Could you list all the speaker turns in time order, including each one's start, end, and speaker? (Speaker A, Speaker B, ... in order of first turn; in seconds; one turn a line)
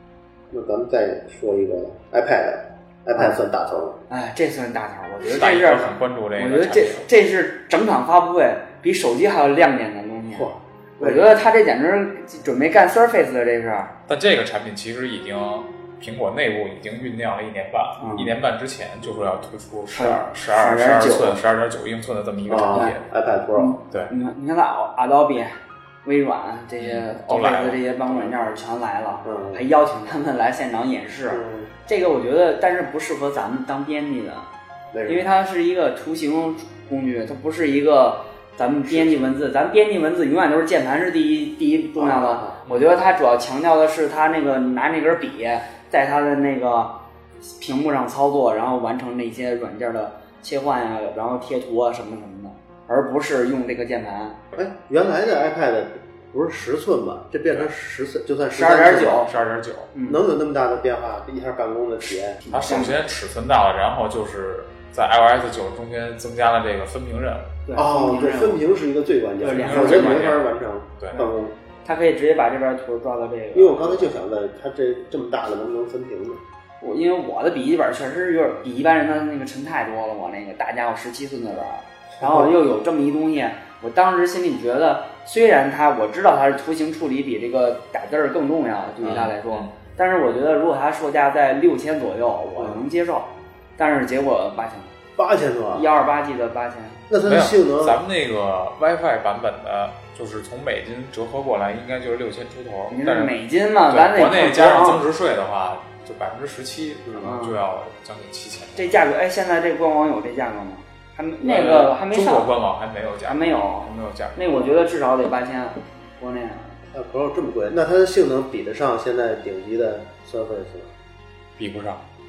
Speaker A: 0.5-4.0
Speaker B: 4.1-13.9
Speaker C: 5.3-7.1
Speaker A: 10.3-11.4
Speaker C: 14.1-23.0
Speaker B: 18.0-18.4
Speaker B: 19.9-21.4
Speaker A: 22.5-23.8
Speaker B: 23.6-34.5
Speaker C: 26.8-28.3
Speaker A: 29.2-29.6
Speaker A: 31.3-31.7
Speaker A: 34.9-35.3
Speaker B: 35.0-54.4
Speaker A: 38.8-39.3
Speaker A: 41.9-42.6
Speaker C: 42.6-43.0
Speaker A: 54.5-59.3
Speaker B: 58.5-59.3
Speaker C: 59.2-59.9
Speaker B: 59.9-60.2
Speaker A: 60.1-62.7
Speaker B: 62.4-63.0
Speaker C: 62.5-67.5
Speaker B: 67.7-68.6
Speaker A: 67.7-71.5
Speaker B: 69.4-70.3
Speaker C: 69.5-71.2
Speaker B: 71.8-74.2
Speaker A: 73.5-76.4
Speaker B: 76.8-94.9
Speaker A: 82.2-82.6
Speaker A: 89.0-89.3
Speaker C: 89.0-89.7
Speaker A: 92.5-92.8
Speaker A: 95.2-95.8
Speaker B: 95.7-97.0
Speaker A: 97.1-98.0
Speaker C: 97.2-103.3
Speaker B: 102.9-105.0
Speaker C: 103.9-109.1
Speaker B: 107.2-107.6
Speaker B: 108.7-112.5
Speaker C: 111.4-114.5
Speaker B: 113.2-116.8
Speaker A: 116.9-120.9
Speaker C: 121.6-122.0